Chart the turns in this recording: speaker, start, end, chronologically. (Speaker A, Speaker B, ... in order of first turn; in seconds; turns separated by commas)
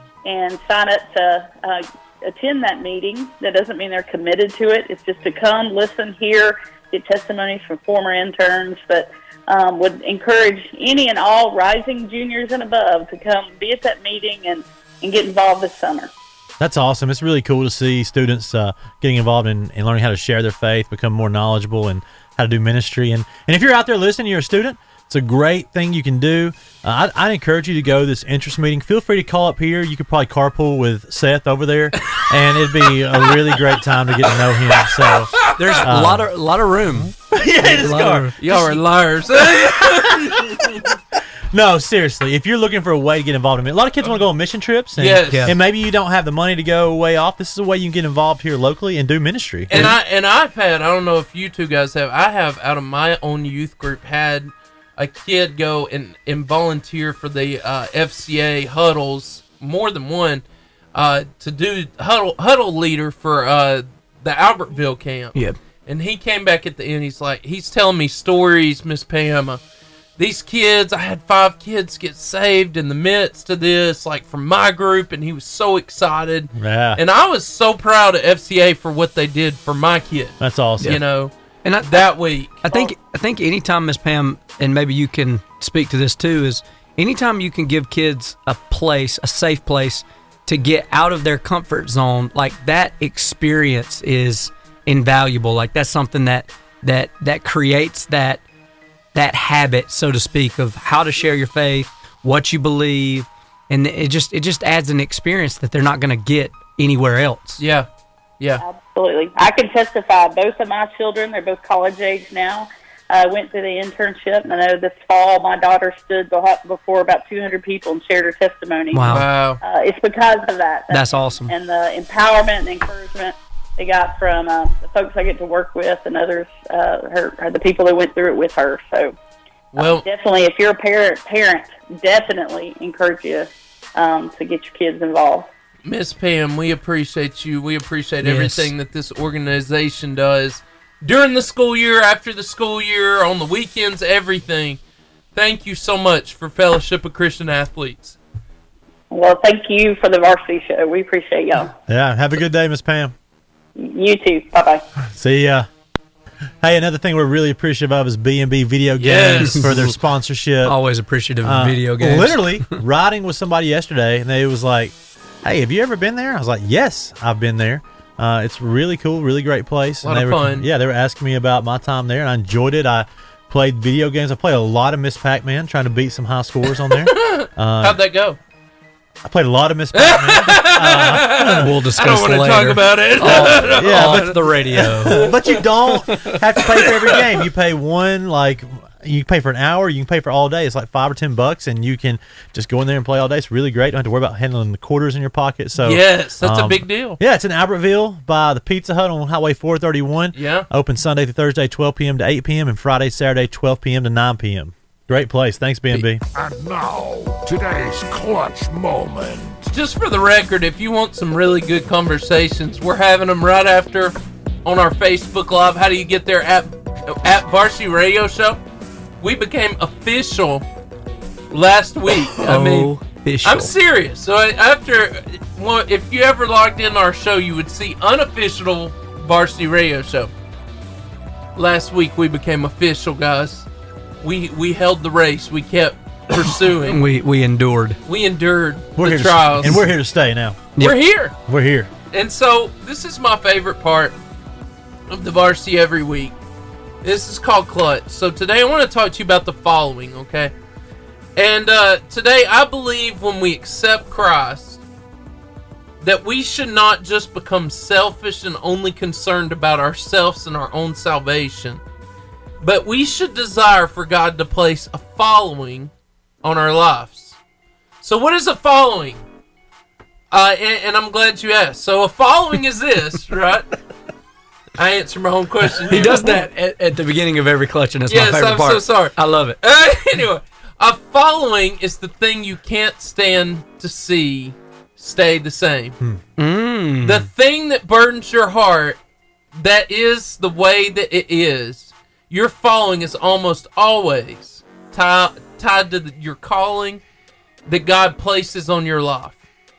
Speaker A: 0.2-16.1, Speaker B: 16.6-36.3, Speaker C: 35.5-35.8, Speaker D: 35.5-38.4, Speaker B: 37.0-38.8, Speaker C: 38.4-40.9, Speaker B: 39.6-40.6, Speaker B: 41.5-49.9, Speaker C: 45.0-45.5, Speaker D: 45.3-45.5, Speaker C: 49.7-69.6, Speaker C: 70.2-82.9, Speaker B: 76.5-77.0, Speaker B: 80.4-81.0, Speaker D: 81.6-98.4, Speaker D: 99.1-107.6, Speaker C: 107.6-107.9, Speaker A: 108.6-129.1, Speaker D: 118.9-119.3, Speaker C: 119.1-119.6, Speaker D: 120.9-121.5, Speaker C: 129.7-130.0, Speaker A: 129.8-135.5, Speaker C: 135.8-144.8, Speaker D: 138.2-138.7, Speaker C: 145.3-148.2, Speaker A: 149.1-151.7, Speaker B: 151.9-153.1, Speaker A: 153.8-154.8, Speaker B: 155.1-155.7, Speaker B: 156.6-160.8, Speaker C: 159.0-159.7, Speaker D: 159.4-159.9, Speaker D: 160.6-162.7, Speaker B: 161.4-178.0, Speaker C: 170.0-170.7, Speaker C: 176.9-178.4, Speaker B: 179.2-181.7, Speaker C: 179.9-185.6, Speaker D: 181.6-185.3, Speaker B: 183.2-206.2, Speaker C: 186.7-187.2, Speaker C: 195.8-197.2, Speaker C: 200.3-200.7, Speaker E: 206.3-209.7, Speaker C: 209.7-218.6, Speaker C: 219.2-220.6, Speaker C: 221.5-222.9, Speaker D: 222.4-223.7, Speaker C: 223.4-230.3, Speaker C: 231.6-233.7, Speaker C: 234.2-237.0, Speaker D: 236.8-238.0, Speaker C: 238.1-239.8, Speaker B: 239.0-240.7, Speaker C: 240.8-241.3, Speaker B: 241.5-241.9, Speaker C: 242.1-244.2, Speaker C: 245.1-246.3, Speaker C: 247.0-250.5, Speaker C: 251.3-254.8, Speaker C: 256.0-261.8, Speaker C: 262.6-265.9, Speaker C: 266.4-267.4, Speaker C: 268.0-269.2, Speaker C: 270.3-273.7, Speaker C: 274.8-276.4, Speaker D: 275.8-279.6, Speaker C: 278.1-285.9, Speaker D: 286.4-287.3, Speaker C: 287.0-289.0, Speaker C: 289.5-297.0, Speaker C: 297.6-299.4